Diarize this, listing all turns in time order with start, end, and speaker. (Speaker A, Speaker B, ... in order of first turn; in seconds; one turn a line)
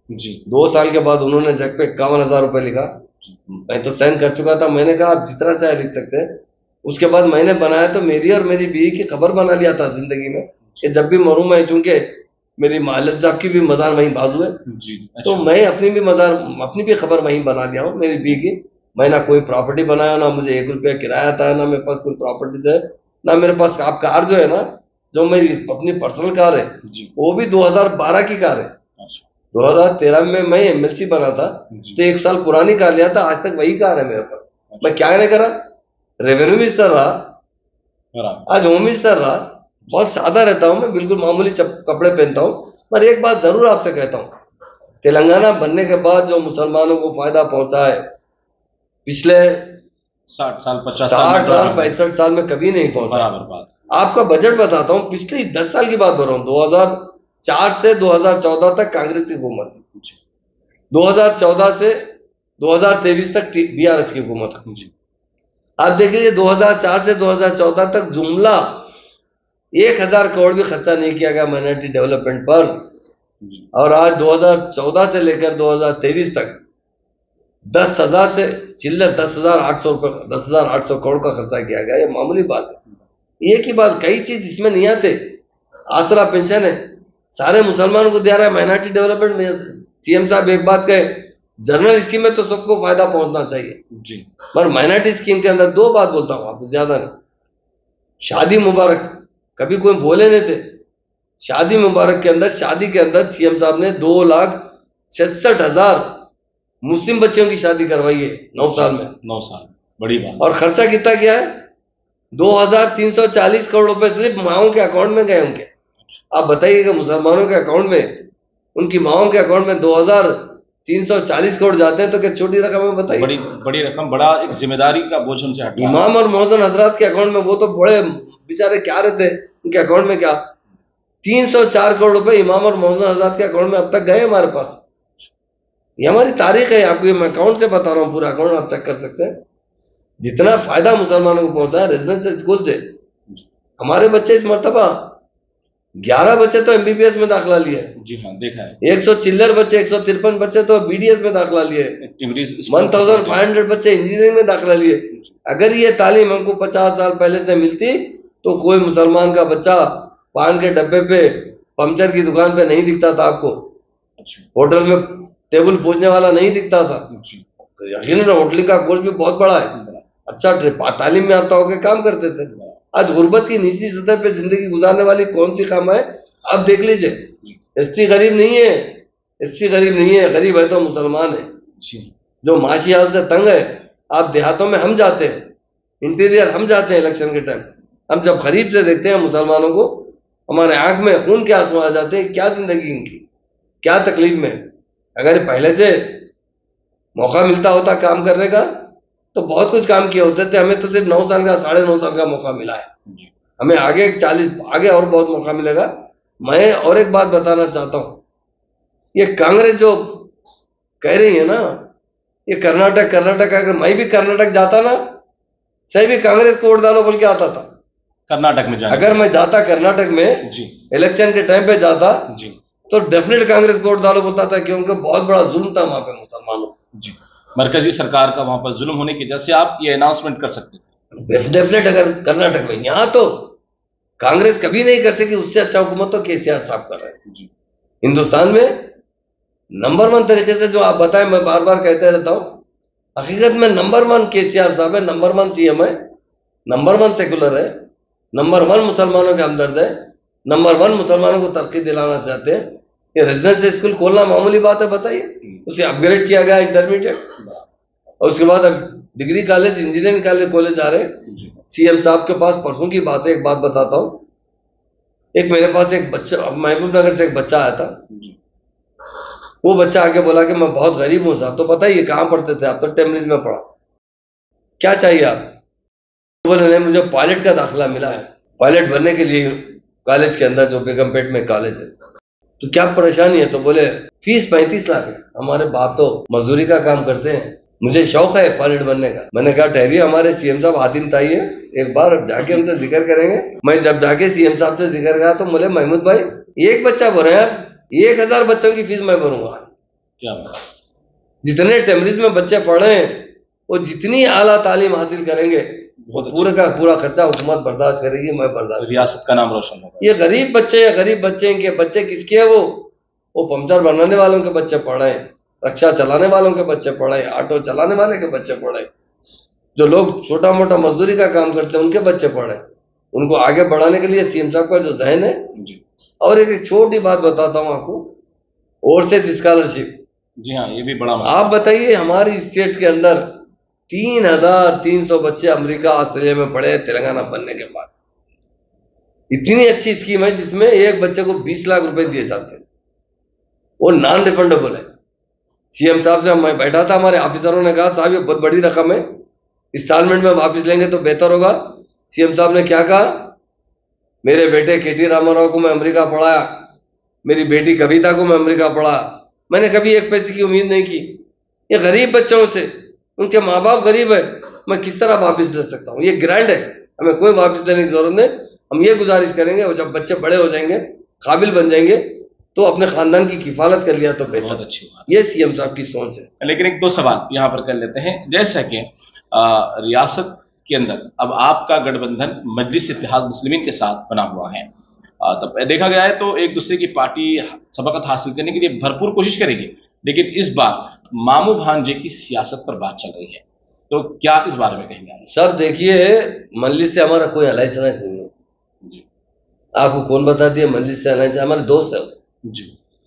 Speaker A: 0.1-0.4
Speaker B: 0.5-3.0
Speaker A: 3.3-3.7
Speaker B: 3.7-14.6
Speaker A: 14.7-15.5
Speaker B: 15.2-28.7
Speaker A: 26.8-27.1
Speaker A: 29.0-29.3
Speaker B: 29.5-35.7
Speaker A: 31.7-32.0
Speaker A: 34.7-35.0
Speaker B: 36.2-37.4
Speaker A: 38.1-38.5
Speaker B: 38.5-44.4
Speaker B: 45.0-48.1
Speaker B: 49.1-49.8
Speaker A: 50.3-52.0
Speaker B: 51.1-53.3
Speaker A: 53.0-53.7
Speaker B: 53.9-59.8
Speaker B: 60.9-64.7
Speaker B: 65.8-68.9
Speaker B: 69.8-72.8
Speaker A: 73.4-73.7
Speaker B: 73.7-76.6
Speaker B: 77.7-82.8
Speaker B: 83.4-85.4
Speaker B: 85.9-93.8
Speaker A: 93.9-94.3
Speaker B: 94.5-97.2
Speaker B: 98.2-100.7
Speaker B: 101.4-106.3
Speaker B: 106.8-109.2
Speaker A: 108.6-110.5
Speaker B: 110.4-111.6
Speaker B: 112.3-115.7
Speaker B: 116.3-123.3
Speaker A: 123.1-126.0
Speaker B: 125.8-130.5
Speaker B: 131.2-134.8
Speaker B: 136.0-139.4
Speaker B: 140.2-142.9
Speaker B: 143.8-145.2
Speaker B: 146.0-147.9
Speaker A: 148.0-148.8
Speaker B: 148.8-152.0
Speaker A: 152.0-153.5
Speaker B: 152.7-163.7
Speaker A: 164.2-164.5
Speaker B: 164.6-167.1
Speaker A: 167.1-167.4
Speaker B: 167.8-181.5
Speaker A: 169.8-170.0
Speaker A: 172.5-172.8
Speaker A: 181.8-182.1
Speaker B: 182.4-185.5
Speaker B: 186.0-193.2
Speaker B: 193.8-196.2
Speaker B: 197.2-202.9
Speaker B: 203.6-205.9
Speaker B: 206.4-208.2
Speaker B: 209.1-210.3
Speaker B: 211.0-211.9
Speaker B: 212.5-215.1
Speaker B: 215.9-217.7
Speaker A: 218.3-219.2
Speaker B: 218.9-222.3
Speaker A: 220.4-220.8
Speaker A: 222.3-222.6
Speaker B: 222.9-226.8
Speaker A: 227.0-230.8
Speaker B: 231.2-233.6
Speaker B: 234.2-237.2
Speaker B: 238.0-238.9
Speaker B: 239.7-242.6
Speaker B: 243.2-246.0
Speaker B: 246.7-257.3
Speaker A: 257.4-257.6
Speaker B: 258.2-264.2
Speaker A: 261.3-261.6
Speaker B: 265.3-268.0
Speaker A: 268.1-268.4
Speaker B: 269.6-273.7
Speaker B: 274.8-275.6
Speaker B: 276.4-282.0
Speaker B: 282.6-299.7
Speaker A: 300.2-300.6
Speaker B: 301.4-309.1
Speaker A: 306.0-306.6
Speaker A: 308.8-310.2
Speaker B: 310.0-318.9
Speaker B: 319.8-322.6
Speaker B: 323.1-325.5
Speaker A: 325.6-325.8
Speaker B: 326.2-328.2
Speaker B: 328.8-330.0
Speaker A: 330.4-331.6
Speaker B: 331.2-333.4
Speaker B: 333.9-337.9
Speaker B: 339.3-342.6
Speaker B: 343.8-344.9
Speaker B: 345.7-349.1
Speaker B: 349.7-353.4
Speaker B: 354.2-356.7
Speaker B: 357.2-376.3
Speaker A: 374.3-375.1
Speaker A: 376.4-384.7
Speaker A: 385.2-395.3
Speaker B: 395.3-398.3
Speaker B: 399.8-402.2
Speaker A: 402.4-402.7